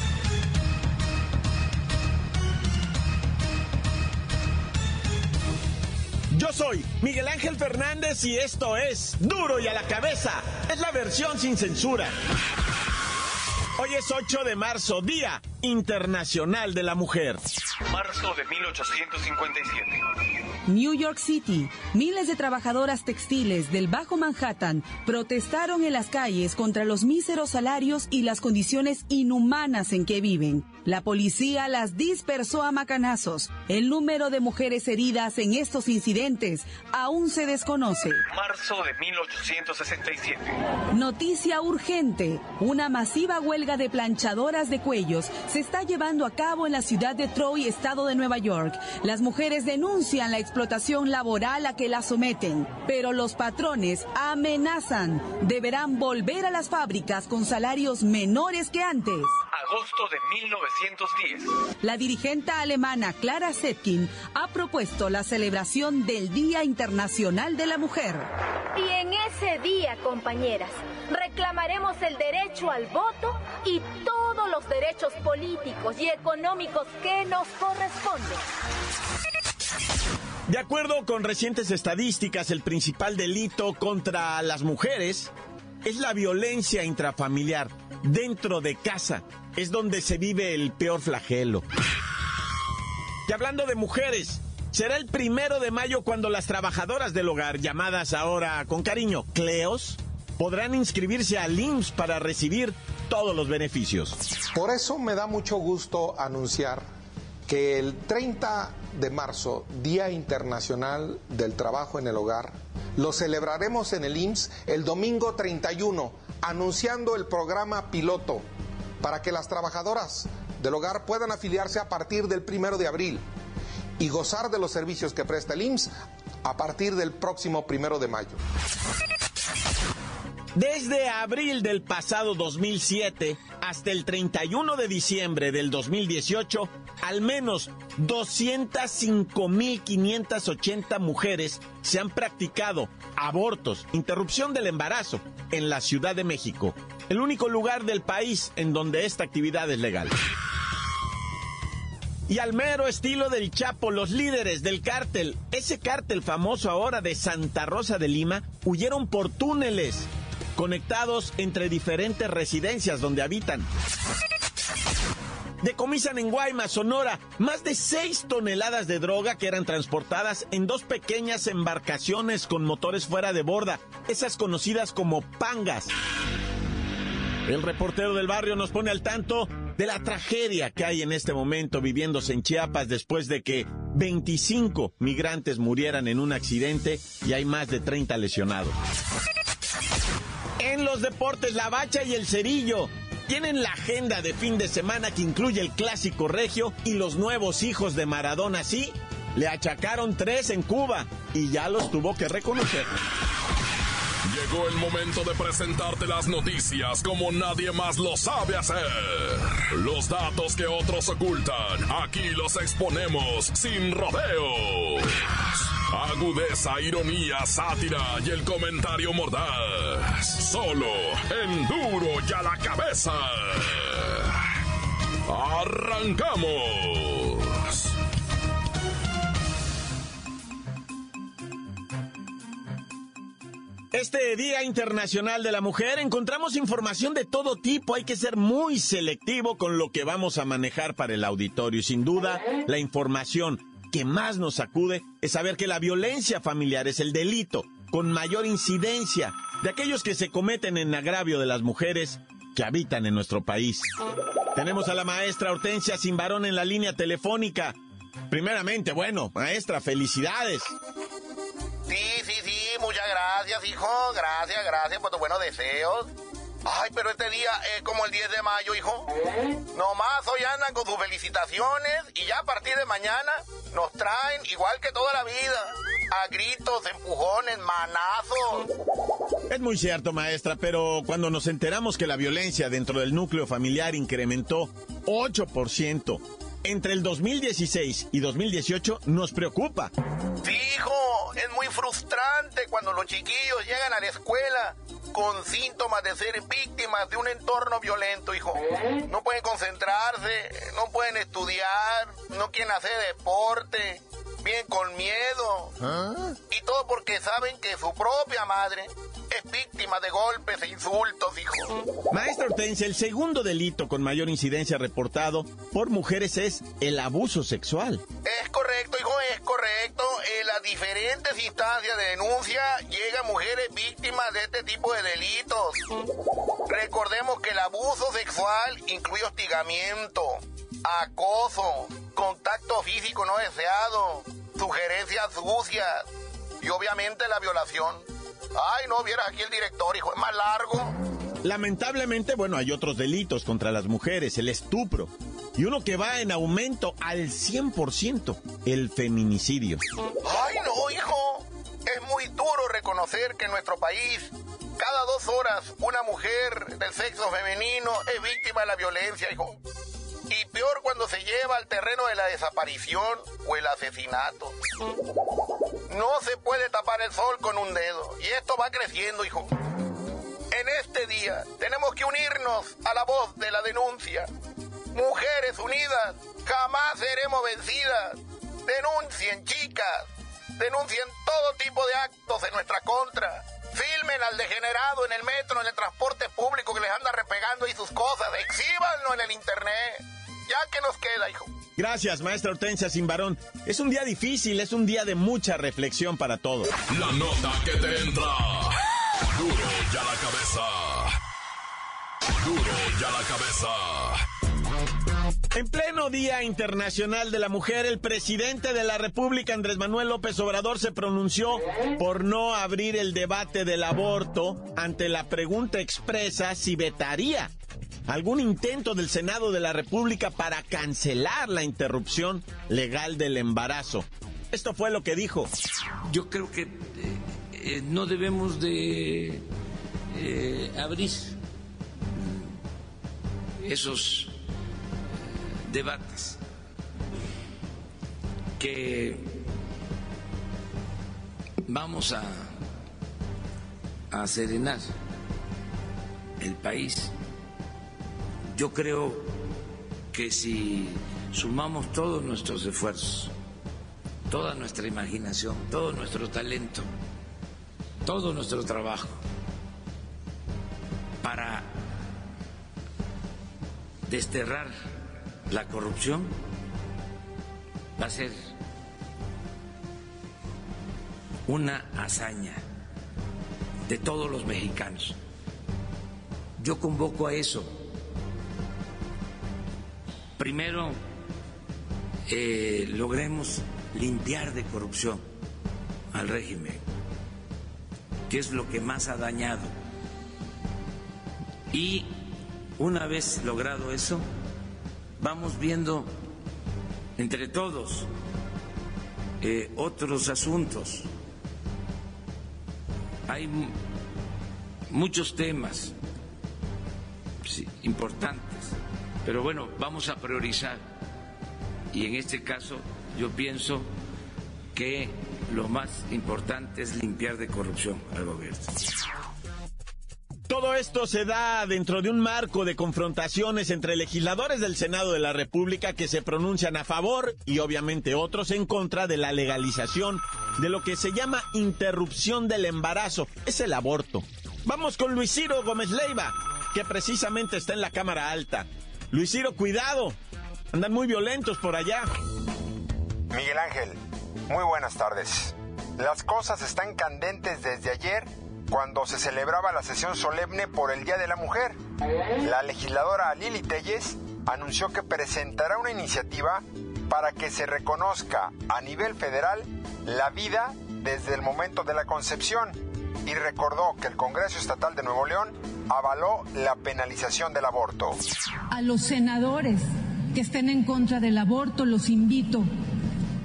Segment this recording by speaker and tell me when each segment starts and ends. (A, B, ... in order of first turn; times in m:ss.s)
0:06.3-0:12.1 A
0:13.8-0:17.4 A
0:17.9-0:20.0 B
0:20.7-0:38.2 C
0:38.3-0:40.5 B
0:40.9-0:59.3 C
0:59.5-1:01.5 B
1:01.8-1:08.3 C
1:08.8-1:18.4 D
1:20.5-1:25.3 A
1:25.8-1:31.6 A
1:33.3-1:44.2 A
1:44.6-1:46.8 E
1:47.5-1:58.4 E
1:59.0-2:03.2 E
2:04.0-2:05.9 E
2:06.4-2:08.4 E
2:10.5-2:30.1 A
2:32.3-2:43.7 A
2:45.6-2:55.9 A
2:57.4-3:08.7 A
3:10.6-3:22.9 A
3:24.2-3:44.4 F
3:45.2-3:47.9 F
3:53.9-4:13.9 A
4:14.5-4:17.8 A
4:18.3-4:20.7 A
4:21.9-4:26.1 G
4:26.6-4:29.1 G
4:29.7-4:38.7 G
4:39.5-4:49.9 A
4:50.4-5:05.7 G
5:06.5-5:11.8 G
5:12.1-5:18.0 A
5:18.2-5:25.8 G
5:26.7-5:36.0 G
5:36.6-5:38.0 G
5:38.5-5:40.9 G
5:41.4-5:49.8 A
5:50.2-5:59.5 G
6:00.3-6:04.5 G
6:05.9-6:09.5 G
6:10.5-6:14.3 G
6:14.9-6:20.1 G
6:20.6-6:31.5 G
6:31.8-6:36.7 A
6:36.9-6:41.1 F
6:42.4-6:44.2 F
6:45.5-6:57.5 A
6:58.1-7:05.5 A
7:06.1-7:09.4 H
7:10.1-7:11.4 H
7:13.6-7:14.4 H
7:15.7-7:16.4 H
7:18.6-7:19.3 H
7:21.6-7:22.5 H
7:24.1-7:24.9 H
7:26.4-7:27.1 H
7:28.5-7:29.3 H
7:30.1-7:33.3 H
7:34.3-7:36.9 H
7:38.0-7:39.2 H
7:41.2-7:41.7 H
7:44.1-7:44.7 H
7:45.5-7:46.3 H
7:48.0-7:48.4 H
7:51.4-7:52.6 H
7:53.8-7:55.2 H
7:56.6-7:57.8 H
8:00.4-8:01.0 H
8:02.3-8:05.2 H
8:06.1-8:06.8 H
8:08.3-8:09.7 H
8:11.7-8:12.2 H
8:12.8-8:14.2 H
8:15.2-8:16.1 H
8:17.2-8:18.1 H
8:19.4-8:21.1 H
8:23.3-8:23.8 H
8:24.9-8:25.9 H
8:27.4-8:30.8 H
8:31.9-8:33.9 H
8:34.7-8:38.8 H
8:40.5-9:00.2 A
9:00.7-9:02.1 A
9:03.3-9:11.8 I
9:12.4-9:28.2 I
9:28.7-9:32.7 J